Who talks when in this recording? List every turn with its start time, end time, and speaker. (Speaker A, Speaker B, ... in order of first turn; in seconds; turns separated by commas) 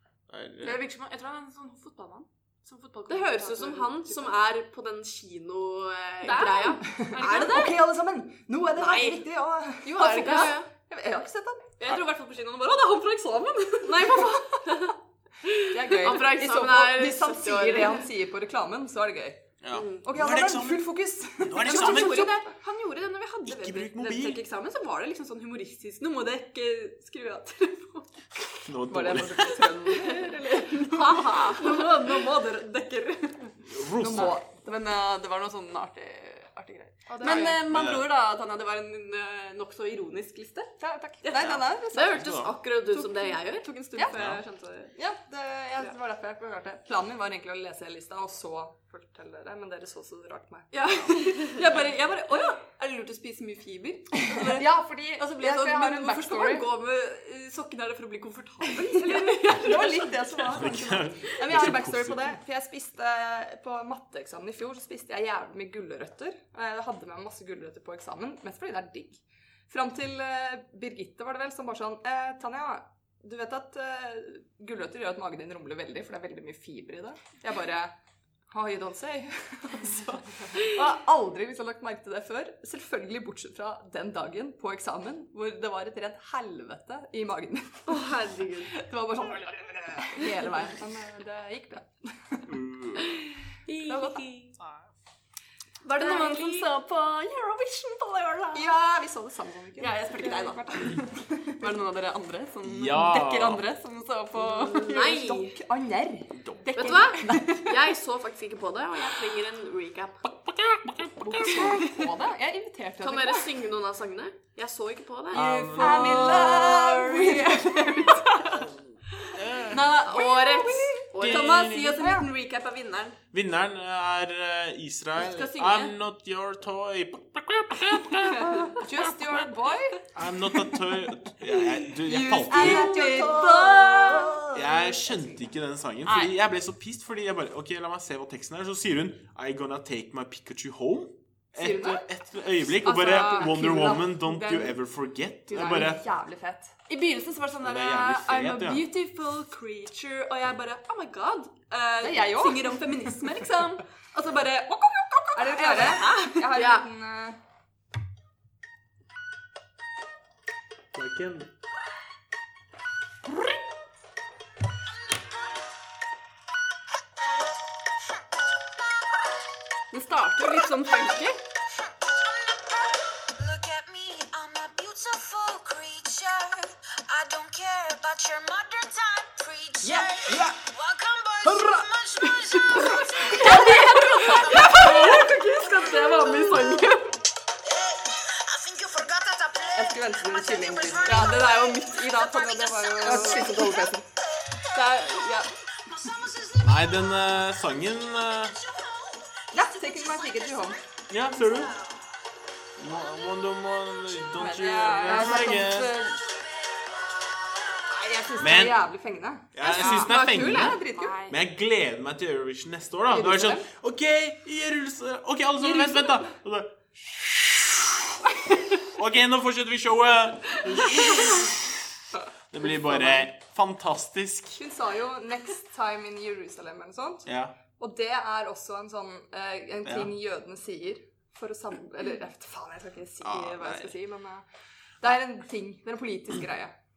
Speaker A: 0.3-0.8, Speaker B: 0.6-3.9, Speaker C: 3.1-6.9, Speaker D: 4.0-4.3, Speaker B: 6.2-7.9, Speaker D: 6.8-11.7, Speaker C: 8.8-9.2, Speaker C: 9.9-10.7, Speaker B: 9.9-10.5, Speaker B: 11.8-14.3, Speaker C: 13.8-18.1, Speaker D: 15.7-19.4, Speaker A: 19.6-22.3, Speaker C: 19.7-20.0, Speaker D: 20.0-22.5, Speaker B: 21.6-28.6, Speaker A: 23.4-24.4, Speaker A: 28.6-29.6, Speaker D: 28.9-31.3, Speaker B: 29.4-40.7, Speaker C: 30.9-31.9, Speaker A: 33.7-34.4, Speaker D: 34.0-34.5, Speaker D: 37.1-37.6, Speaker A: 37.5-38.1, Speaker D: 40.8-42.3, Speaker A: 41.3-42.5, Speaker C: 41.9-43.7, Speaker B: 42.9-44.9, Speaker D: 43.9-44.2, Speaker A: 44.1-44.4, Speaker D: 45.0-51.1, Speaker B: 50.7-60.6, Speaker D: 54.2-56.7, Speaker D: 58.6-77.9, Speaker A: 60.5-62.4, Speaker D: 78.5-92.6, Speaker C: 87.9-88.7, Speaker A: 92.5-93.1, Speaker C: 93.7-94.5, Speaker D: 93.8-94.2, Speaker A: 94.6-94.9, Speaker B: 95.8-98.7, Speaker C: 96.0-96.7, Speaker D: 98.5-101.7, Speaker B: 99.8-105.2, Speaker A: 102.6-103.6, Speaker C: 104.4-105.6, Speaker D: 104.9-107.8, Speaker A: 106.3-106.7, Speaker B: 106.6-107.5, Speaker C: 106.7-110.2, Speaker A: 110.5-111.7, Speaker D: 111.2-113.6, Speaker C: 113.0-115.4, Speaker A: 115.3-116.5, Speaker B: 115.3-118.7, Speaker D: 115.4-118.6, Speaker A: 118.5-120.0, Speaker B: 119.2-123.2, Speaker C: 120.0-121.7, Speaker D: 120.1-121.2, Speaker A: 121.2-122.0, Speaker D: 121.9-122.3, Speaker A: 123.3-129.1, Speaker B: 125.2-126.0, Speaker D: 128.7-130.0, Speaker A: 130.1-133.0, Speaker D: 132.1-135.2, Speaker B: 132.1-134.4, Speaker C: 133.0-133.6, Speaker A: 134.5-146.0, Speaker B: 136.1-136.3, Speaker D: 141.6-142.0, Speaker D: 142.8-144.8, Speaker B: 143.0-143.6, Speaker D: 145.5-146.8, Speaker B: 146.9-156.5, Speaker A: 147.6-148.9, Speaker D: 152.0-153.2, Speaker D: 155.3-157.4, Speaker C: 156.5-156.8, Speaker A: 160.9-161.5, Speaker B: 169.9-171.4, Speaker E: 171.8-184.8, Speaker D: 179.8-180.6, Speaker D: 181.5-185.3, Speaker B: 182.7-187.0, Speaker C: 184.2-187.0, Speaker E: 187.7-193.8, Speaker D: 189.7-191.6, Speaker B: 191.0-193.5, Speaker D: 193.0-194.1, Speaker B: 194.7-195.5, Speaker E: 194.7-197.4, Speaker A: 196.6-198.6, Speaker E: 198.2-202.0, Speaker D: 199.5-200.8, Speaker A: 201.1-201.8, Speaker A: 202.8-206.0, Speaker D: 204.4-205.8, Speaker B: 204.5-206.2, Speaker E: 206.0-207.9, Speaker D: 207.9-211.2, Speaker A: 208.4-208.8, Speaker A: 209.5-218.3, Speaker B: 209.6-210.1, Speaker C: 209.8-210.7, Speaker B: 210.9-211.4, Speaker D: 213.1-213.7, Speaker A: 218.8-221.8, Speaker A: 222.5-224.6, Speaker D: 222.8-223.2, Speaker D: 224.6-234.4, Speaker A: 227.2-227.5, Speaker A: 229.8-230.1, Speaker A: 233.2-233.9, Speaker D: 235.0-236.7